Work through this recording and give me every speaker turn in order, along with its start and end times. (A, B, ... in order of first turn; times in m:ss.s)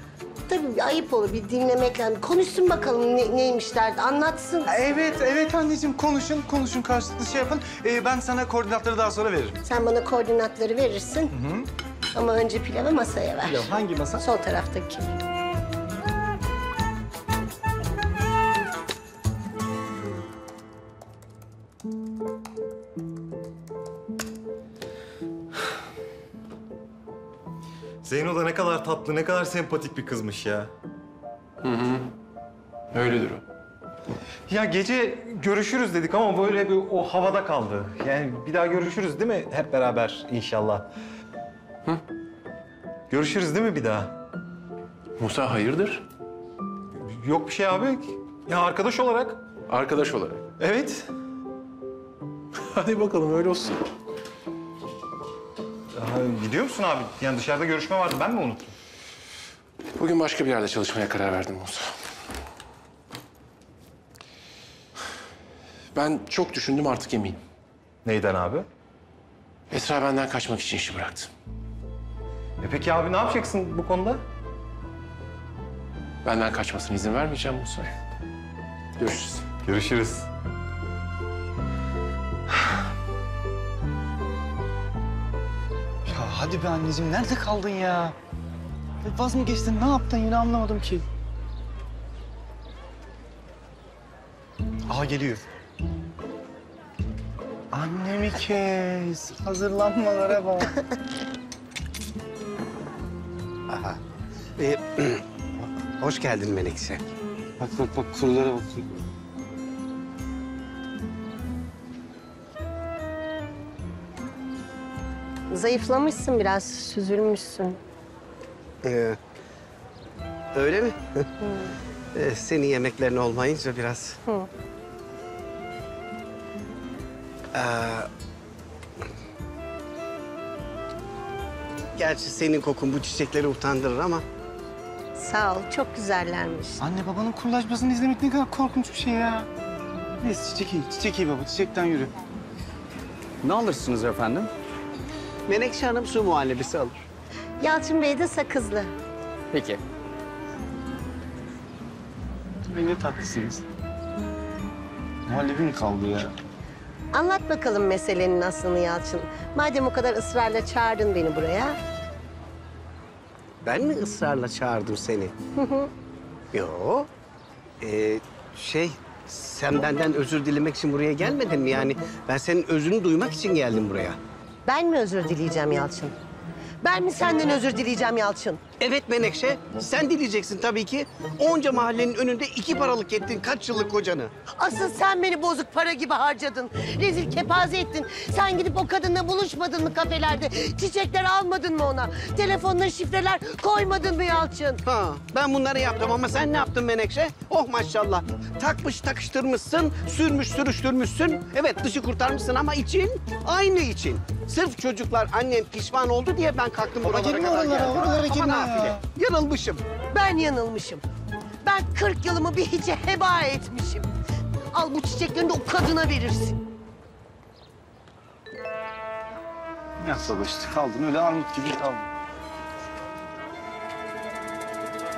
0:00.5-0:04.7 A
0:04.7-0:09.6 B
0:09.6-0:11.3 A
0:11.3-0:11.7 B
0:12.2-0:15.1 A
0:13.5-0:14.2 B
0:28.0-0:30.7 C
0:31.6-0:32.1 D
0:32.9-0:33.4 D
0:34.5-0:40.9 C
0:43.1-0:44.1 C
0:45.2-0:46.0 D
0:47.0-0:49.4 C
0:49.7-0:50.4 D
0:50.6-0:51.0 C
0:52.6-0:53.8 D
0:56.0-0:58.7 C
1:00.0-1:01.9 D
1:05.9-1:07.4 D
1:08.0-1:08.7 C
1:09.7-1:11.3 D
1:12.6-1:14.2 C
1:16.2-1:17.9 D
1:19.0-1:19.4 D
1:19.6-1:20.3 C
1:26.1-1:28.2 B
1:29.0-1:31.0 B
1:34.9-1:35.4 B
1:37.7-1:40.7 B
1:43.7-1:44.0 E
1:44.6-1:47.1 E
1:47.6-1:48.9 E
1:55.5-1:57.8 A
1:58.8-1:59.2 E
2:00.5-2:01.3 E
2:01.4-2:01.7 A
2:02.1-2:04.2 E
2:07.5-2:08.1 E
2:12.0-2:14.2 E
2:15.2-2:16.8 A
2:16.8-2:19.5 B
2:20.2-2:22.1 B
2:23.4-2:24.5 E
2:25.5-2:27.0 E
2:27.6-2:28.9 A
2:32.7-2:33.6 B
2:35.3-2:36.3 B
2:37.1-2:41.8 A
2:43.6-2:45.4 E
2:45.6-2:45.9 A
2:46.5-2:47.1 E
2:47.8-2:54.2 E
2:54.7-2:56.2 A
2:56.8-2:58.6 A
2:58.8-3:04.3 E
3:04.6-3:14.8 A
3:14.9-3:29.8 E
3:27.0-3:29.0 B
3:30.1-3:31.0 A
3:31.6-3:34.1 A
3:34.7-3:36.6 A
3:40.0-3:42.1 B